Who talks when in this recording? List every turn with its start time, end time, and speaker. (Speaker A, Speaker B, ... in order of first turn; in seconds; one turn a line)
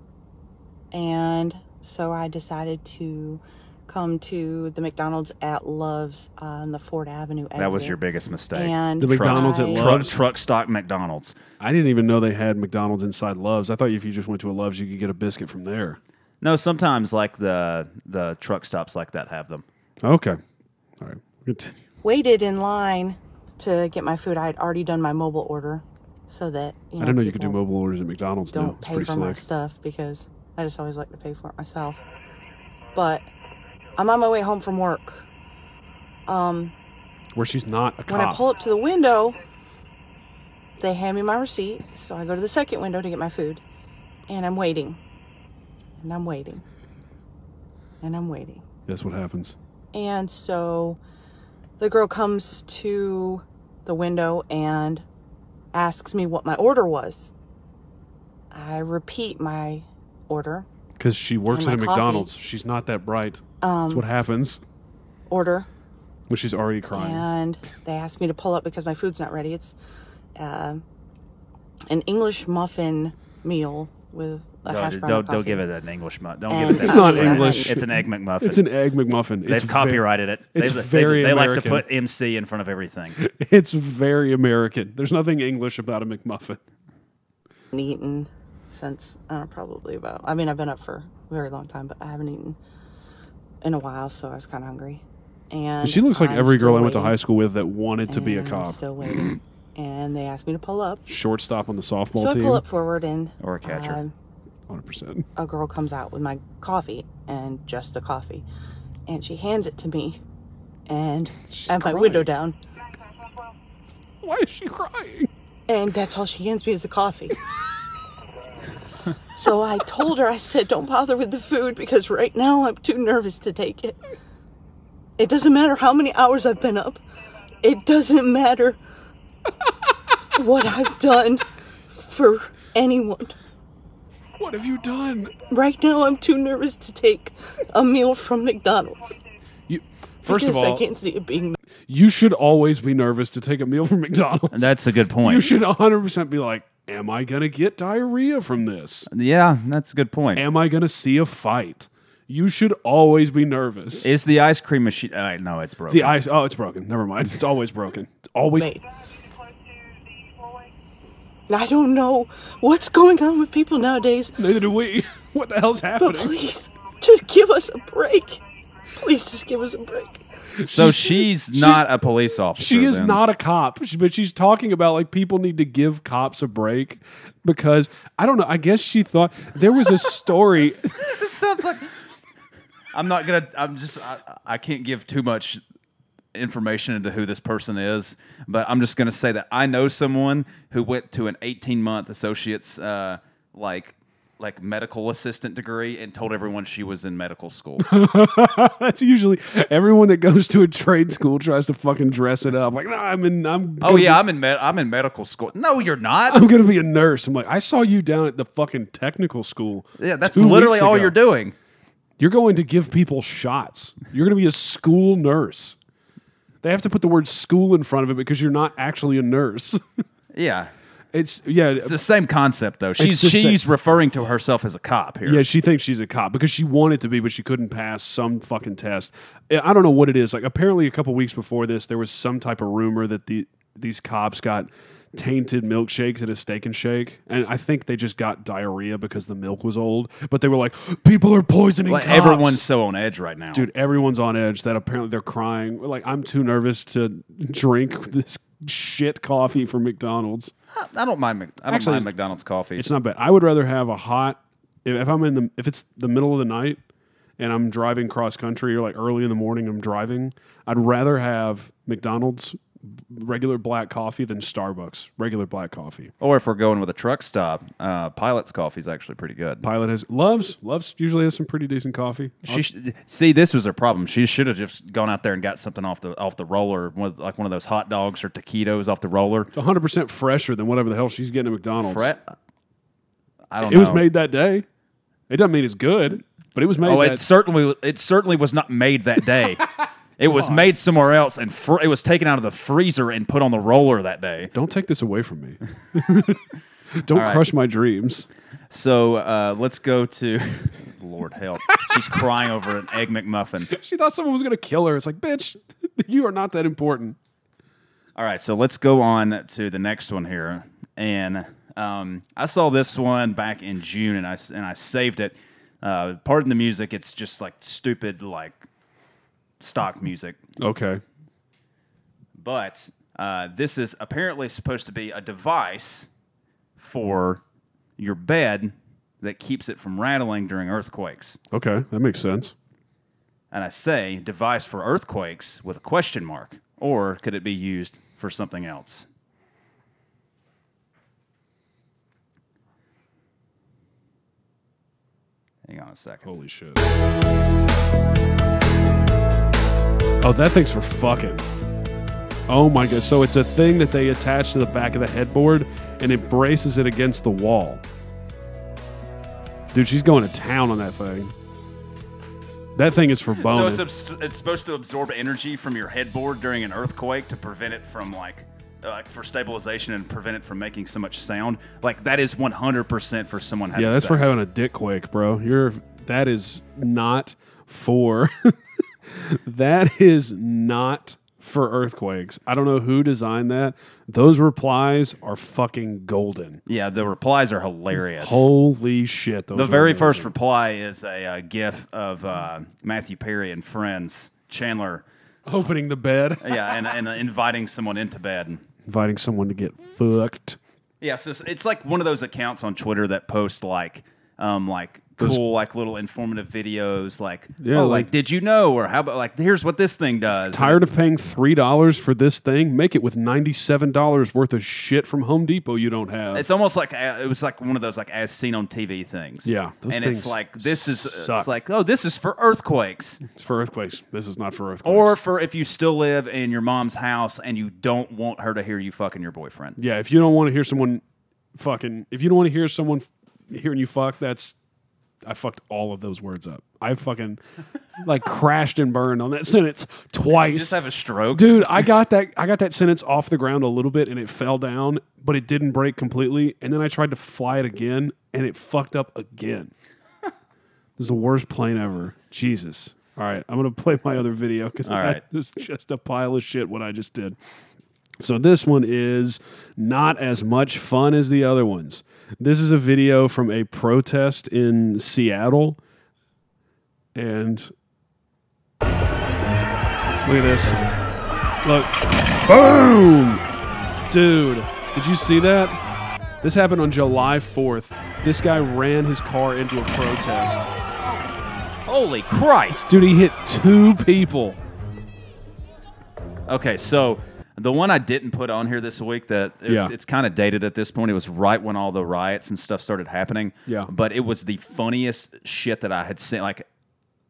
Speaker A: 0.9-8.0
Speaker B: 7.5-11.4
Speaker A: 8.5-9.9
Speaker C: 9.0-10.2
Speaker C: 11.6-16.0
Speaker B: 16.4-19.6
Speaker C: 20.0-20.4
Speaker C: 21.0-21.8
Speaker A: 22.0-27.6
Speaker C: 27.0-29.4
Speaker A: 28.5-32.0
Speaker A: 32.9-33.3
Speaker A: 34.0-35.3
Speaker A: 36.3-36.7
Speaker C: 37.4-38.4
Speaker A: 38.1-39.4
Speaker A: 40.8-43.6
Speaker A: 44.3-45.0
Speaker A: 46.0-46.6
Speaker A: 48.0-48.6
Speaker C: 48.9-49.5
Speaker A: 49.9-51.0
Speaker A: 51.8-55.0
Speaker A: 55.7-57.3
Speaker A: 58.5-60.7
Speaker C: 61.0-64.6
Speaker A: 61.5-62.3
Speaker A: 63.6-64.0
Speaker A: 65.3-65.7
Speaker C: 66.3-67.3
Speaker A: 66.9-69.7
Speaker A: 70.4-70.8
Speaker A: 71.9-75.6
Speaker B: 74.7-78.6
Speaker A: 76.5-77.7
Speaker C: 76.7-81.8
Speaker B: 79.5-83.2
Speaker C: 83.2-86.6
Speaker A: 87.7-92.6
Speaker A: 93.6-97.2
Speaker C: 95.8-98.8
Speaker A: 98.1-101.0
Speaker C: 101.1-102.6
Speaker A: 102.1-104.1
Speaker B: 103.4-104.0
Speaker C: 104.7-105.3
Speaker A: 105.4-108.4
Speaker A: 109.1-110.2
Speaker A: 110.9-112.5
Speaker C: 111.5-112.3
Speaker C: 114.2-115.3
Speaker A: 115.7-117.4
Speaker A: 119.3-124.0
Speaker A: 125.2-127.0
Speaker A: 127.6-128.8
Speaker A: 130.3-133.3
Speaker C: 134.4-135.3
Speaker A: 135.5-139.2
Speaker C: 139.7-140.8
Speaker A: 140.2-141.6
Speaker C: 141.9-149.1
Speaker B: 144.5-145.5
Speaker B: 149.1-150.4
Speaker C: 150.3-154.1
Speaker B: 154.0-156.2
Speaker C: 155.9-158.7
Speaker A: 158.6-158.8
Speaker A: 161.5-164.4
Speaker C: 164.4-166.3
Speaker A: 166.0-168.4
Speaker A: 168.9-170.2
Speaker C: 170.6-171.9
Speaker B: 170.6-173.2
Speaker C: 172.6-180.9
Speaker B: 180.6-181.9
Speaker B: 182.9-185.6
Speaker B: 186.3-197.9
Speaker C: 197.8-204.2
Speaker B: 203.8-206.4
Speaker C: 206.3-211.1
Speaker B: 210.0-211.5
Speaker C: 212.2-215.8
Speaker C: 216.6-220.0
Speaker B: 220.3-220.7
Speaker C: 221.1-222.0
Speaker B: 221.8-225.4
Speaker C: 223.0-223.6
Speaker C: 225.2-242.6
Speaker B: 241.9-243.7
Speaker C: 243.5-250.5
Speaker B: 250.7-252.9
Speaker C: 251.7-252.1
Speaker C: 252.8-256.8
Speaker C: 257.4-266.1
Speaker B: 266.2-269.6
Speaker C: 269.6-272.6
Speaker B: 272.4-279.5
Speaker C: 279.5-282.1
Speaker B: 281.8-282.3
Speaker B: 283.5-284.1
Speaker C: 283.6-284.6
Speaker C: 285.3-287.2
Speaker B: 286.8-289.6
Speaker B: 290.2-294.5
Speaker C: 290.2-290.7
Speaker C: 294.5-296.4
Speaker C: 297.0-298.3
Speaker B: 297.1-297.4
Speaker B: 298.7-303.7
Speaker C: 303.7-307.2
Speaker B: 308.1-318.6
Speaker B: 319.6-320.4
Speaker C: 320.6-321.0
Speaker B: 322.4-326.1
Speaker B: 326.8-327.4
Speaker B: 328.0-331.4
Speaker C: 331.5-332.5
Speaker B: 333.5-339.1
Speaker B: 345.6-346.4
Speaker C: 346.2-346.9
Speaker C: 350.2-351.4
Speaker C: 352.5-357.8
Speaker C: 359.7-361.3
Speaker C: 362.8-363.8
Speaker B: 363.3-374.4
Speaker C: 373.7-378.6
Speaker C: 379.1-386.6
Speaker B: 386.6-388.5
Speaker C: 388.1-390.3
Speaker B: 389.5-395.0
Speaker C: 395.5-396.8
Speaker B: 396.4-398.6
Speaker C: 398.9-400.6
Speaker B: 401.0-410.8
Speaker C: 407.6-408.1
Speaker C: 410.5-416.4
Speaker B: 416.3-423.2
Speaker C: 419.4-421.5
Speaker C: 423.2-425.2
Speaker B: 424.8-429.8
Speaker C: 429.8-431.0
Speaker C: 431.5-434.6
Speaker C: 435.2-437.4
Speaker C: 438.0-440.8
Speaker B: 440.3-441.9
Speaker C: 441.3-449.7
Speaker C: 451.0-457.4
Speaker B: 454.8-455.2
Speaker C: 458.2-465.8
Speaker C: 467.1-467.7
Speaker C: 470.2-470.8
Speaker C: 471.6-471.9
Speaker C: 472.5-473.4
Speaker C: 474.1-475.8
Speaker C: 476.4-480.7
Speaker B: 481.9-482.9
Speaker C: 482.7-484.6
Speaker B: 486.5-496.6
Speaker C: 489.6-489.9